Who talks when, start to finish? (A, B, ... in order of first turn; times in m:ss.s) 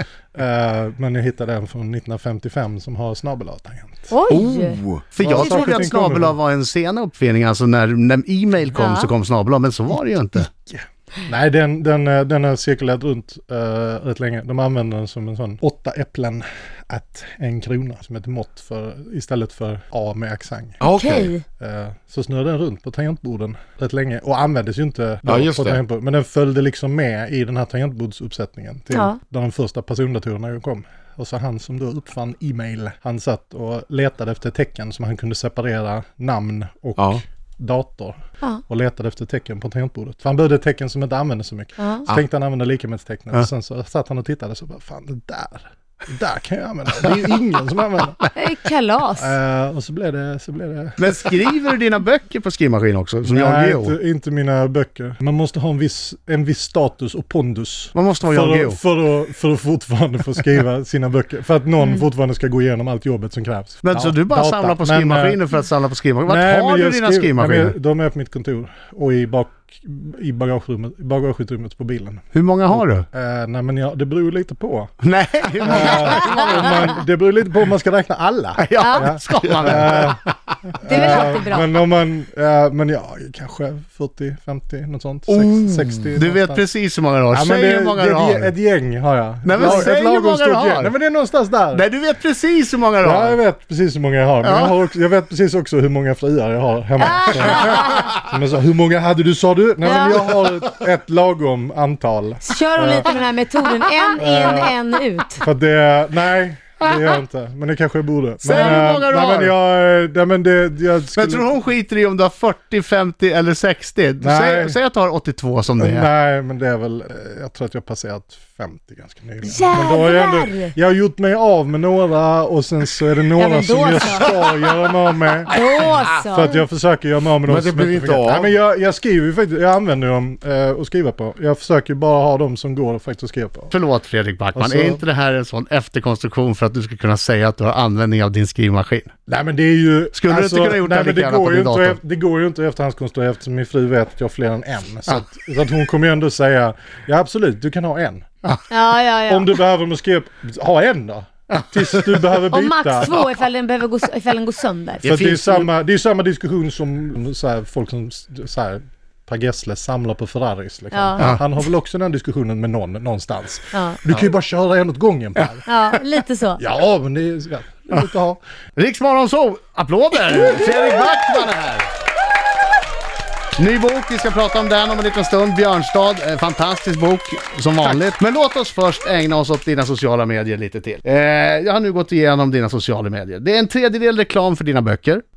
0:00.3-0:04.1 A
0:04.1-0:04.8 B
0:04.3-0:05.0 C
0:05.1-0:10.5 D
0:05.2-0:06.4 A
0:05.4-0:05.8 B
0:08.8-0:09.1 B
0:10.5-0:20.8 A
0:20.8-0:21.3 C
0:20.9-0:21.4 B
0:21.6-0:48.2 A
0:25.2-0:25.8 C
0:28.9-0:29.2 B
0:41.8-0:42.0 B
0:48.3-0:49.3 B
0:49.2-0:51.4 A
0:51.0-0:54.0 D
0:53.3-1:05.4 A
0:57.9-0:58.8 D
1:03.8-1:07.7 D
1:06.2-1:14.9 A
1:12.3-1:13.0 D
1:15.0-1:17.0 D
1:15.6-1:26.6 A
1:18.6-1:20.1 D
1:18.8-1:19.1 B
1:19.6-1:20.3 C
1:20.8-1:21.7 B
1:26.1-1:28.5 D
1:27.3-1:31.8 A
1:29.4-1:30.9 D
1:31.7-1:33.4 D
1:33.0-1:43.2 A
1:34.4-1:34.7 D
1:37.0-1:38.1 B
1:39.8-1:40.4 B
1:42.4-1:45.4 B
1:44.2-1:44.8 A
1:45.4-1:51.5 A
1:48.4-1:49.5 D
1:51.2-1:56.1 D
1:54.2-1:54.8 A
1:55.8-2:05.6 A
1:59.4-2:00.7 B
2:03.3-2:04.3 B
2:05.5-2:06.6 B
2:06.1-2:13.7 A
2:07.4-2:08.5 C
2:13.7-2:19.1 D
2:14.5-2:15.0 A
2:19.3-2:28.2 A
2:20.1-2:22.0 D
2:28.7-2:29.5 B
2:29.3-2:33.2 A
2:32.5-2:35.1 B
2:35.0-2:35.7 C
2:35.0-2:45.7 A
2:40.9-2:41.3 B
2:43.7-2:44.0 B
2:45.6-2:46.6 B
2:46.6-2:48.4 A
2:48.8-2:51.9 D
2:53.6-3:05.2 D